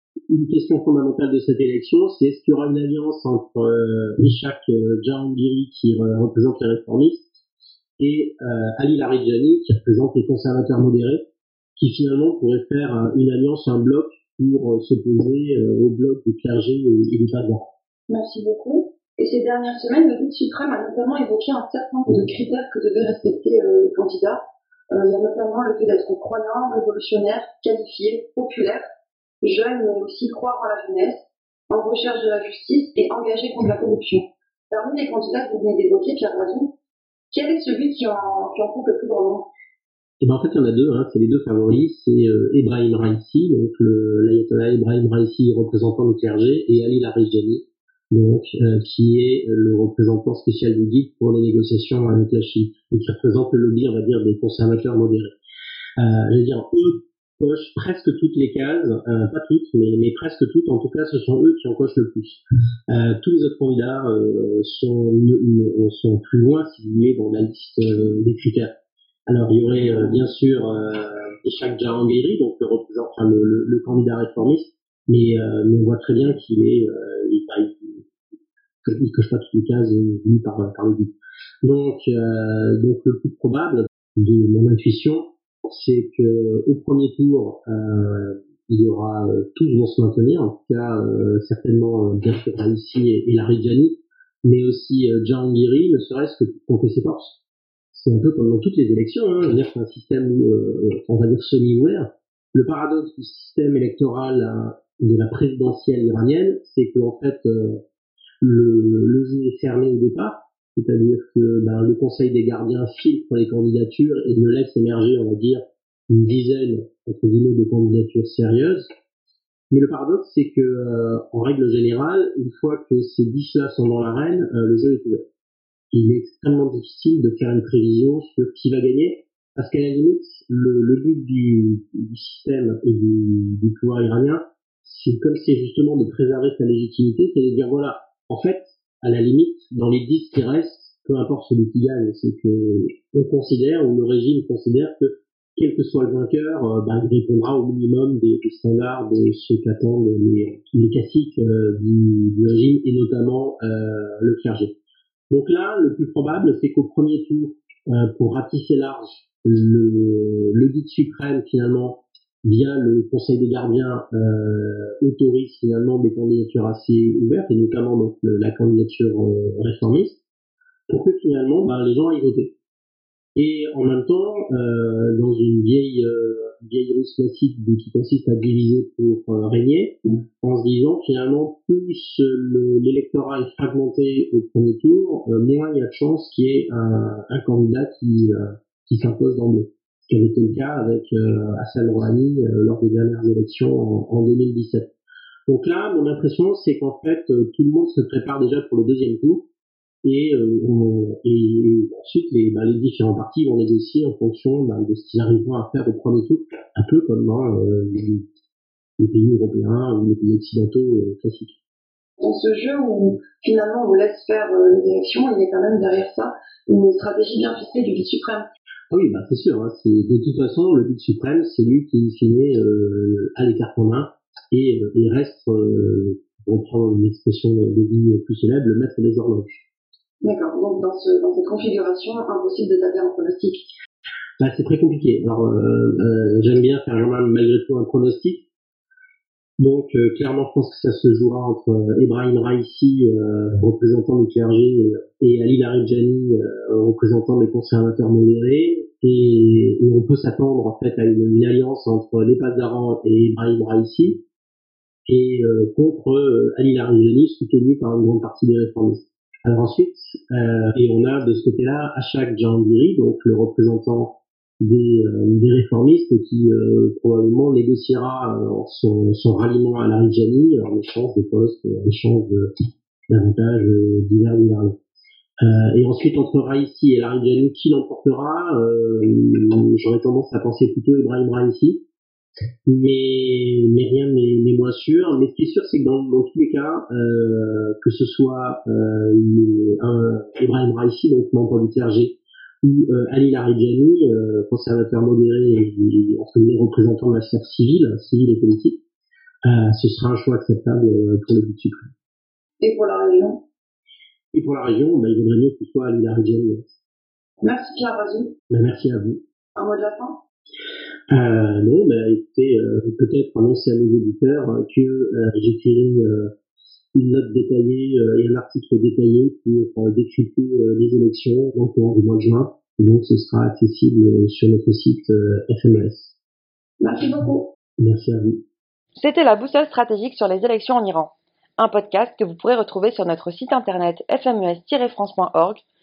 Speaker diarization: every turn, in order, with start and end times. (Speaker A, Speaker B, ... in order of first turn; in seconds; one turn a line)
Speaker A: 0.3-7.4
Speaker A: 8.0-11.2
Speaker A: 11.8-17.7
Speaker B: 18.1-28.8
Speaker B: 29.4-36.7
Speaker B: 37.3-39.5
Speaker A: 40.2-55.3
Speaker A: 56.0-68.7
Speaker A: 69.3-78.1
Speaker A: 78.8-97.4
Speaker A: 97.9-107.8
Speaker A: 108.4-118.9
Speaker A: 119.7-125.2
Speaker A: 125.9-154.7
Speaker A: 155.3-170.2
Speaker A: 170.9-172.5
Speaker A: 173.3-194.9
Speaker A: 195.5-199.4
Speaker A: 200.0-208.2
Speaker A: 209.0-211.6
Speaker B: 212.2-218.5
Speaker A: 218.9-229.6
Speaker B: 230.2-233.7
Speaker A: 234.4-238.4
Speaker A: 239.6-254.2
Speaker A: 255.1-272.5
Speaker A: 273.1-274.8
Speaker A: 275.4-281.8
Speaker A: 282.6-298.8
Speaker A: 299.4-301.9
Speaker B: 302.6-303.4
Speaker A: 304.3-306.8
Speaker B: 307.4-308.3
Speaker A: 308.5-309.2
Speaker B: 309.5-310.2
Speaker A: 311.1-316.3
Speaker A: 316.9-326.1
Speaker B: 326.8-327.5
Speaker A: 327.8-328.4
Speaker C: 328.9-335.6